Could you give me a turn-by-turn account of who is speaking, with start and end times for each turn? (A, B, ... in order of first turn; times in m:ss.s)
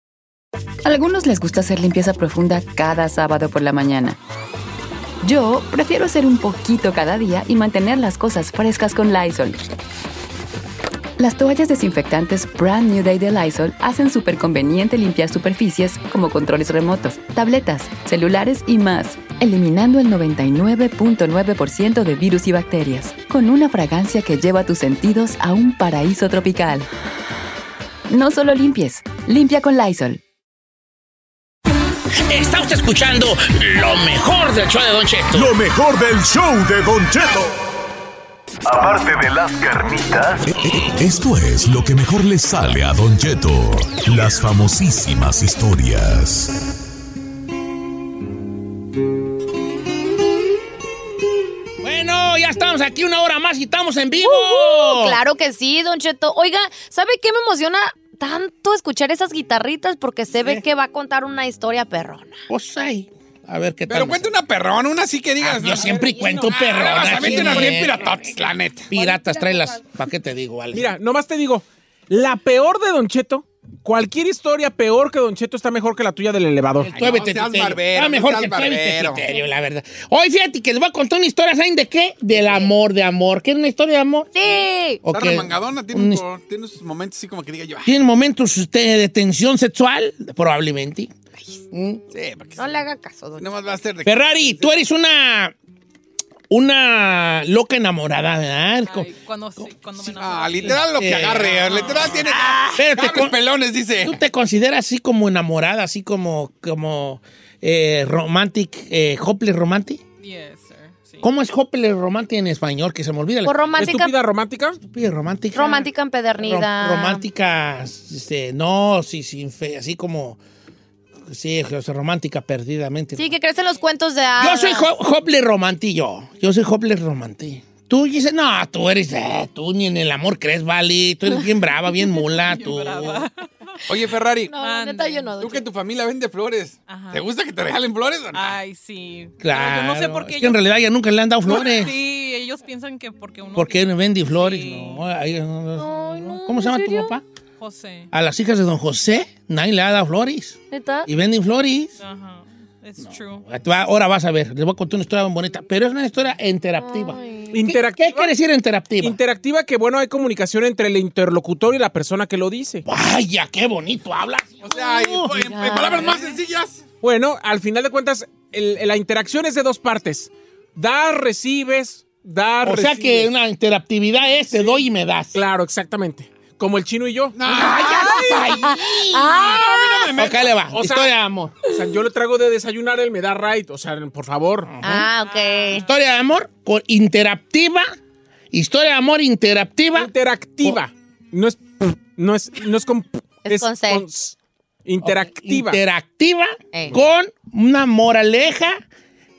0:00.8-0:04.2 A
0:05.2-0:09.6 A
0:11.2-0:26.9 A
0:28.1-0:30.2 A
0:32.2-0:35.5 B
0:35.3-0:37.5 C
0:38.7-0:46.5 C
0:51.8-0:55.2 B
0:54.2-1:02.4 D
1:02.5-1:04.3 B
1:03.9-1:08.9 E
1:05.4-1:08.2 B
1:08.9-1:10.9 B
1:10.7-1:16.9 F
1:16.8-1:24.3 B
1:16.9-1:19.2 E
1:24.3-1:25.0 D
1:25.0-1:26.2 B
1:25.1-1:27.9 E
1:27.9-1:31.1 B
1:31.7-1:32.0 B
1:32.1-1:32.7 E
1:32.6-1:33.6 D
1:33.4-1:34.8 E
1:34.0-1:35.5 B
1:36.5-1:39.1 B
1:38.8-1:42.4 G
1:40.0-1:44.2 E
1:40.6-1:43.4 B
1:44.0-1:50.0 B
1:50.2-1:51.3 G
1:51.2-1:53.7 B
1:53.4-1:54.1 D
1:53.8-1:54.8 F
1:54.8-2:00.4 B
1:55.6-1:57.2 D
1:55.6-1:55.9 G
2:01.3-2:03.3 B
2:03.2-2:04.9 D
2:04.4-2:13.3 B
2:12.2-2:13.5 G
2:13.9-2:14.6 E
2:14.5-2:15.7 D
2:14.5-2:15.4 G
2:15.4-2:18.6 E
2:16.9-2:17.3 G
2:18.3-2:20.7 G
2:19.4-2:22.0 B
2:21.5-2:25.0 G
2:23.6-2:27.2 B
2:25.8-2:27.2 D
2:27.6-2:28.1 G
2:28.1-2:32.0 B
2:30.7-2:31.1 D
2:32.0-2:33.5 G
2:33.0-2:37.2 B
2:36.8-2:37.8 D
2:37.5-2:38.3 F
2:37.8-2:39.2 B
2:39.0-2:42.8 F
2:42.9-2:46.1 B
2:44.6-2:46.8 E
2:45.5-2:46.3 D
2:47.0-2:53.3 F
2:52.6-2:55.4 B
2:54.5-2:54.8 F
2:55.3-2:57.4 F
2:57.4-3:00.5 E
2:57.5-2:59.6 B
2:59.1-3:00.1 D
3:00.1-3:01.6 B
3:00.7-3:01.1 F
3:01.7-3:04.7 F
3:04.7-3:05.1 B
3:04.8-3:05.8 D
3:05.1-3:05.9 G
3:05.7-3:07.9 B
3:08.5-3:10.1 B
3:10.0-3:14.4 F
3:13.5-3:14.1 D
3:14.9-3:15.8 F
3:15.0-3:18.8 B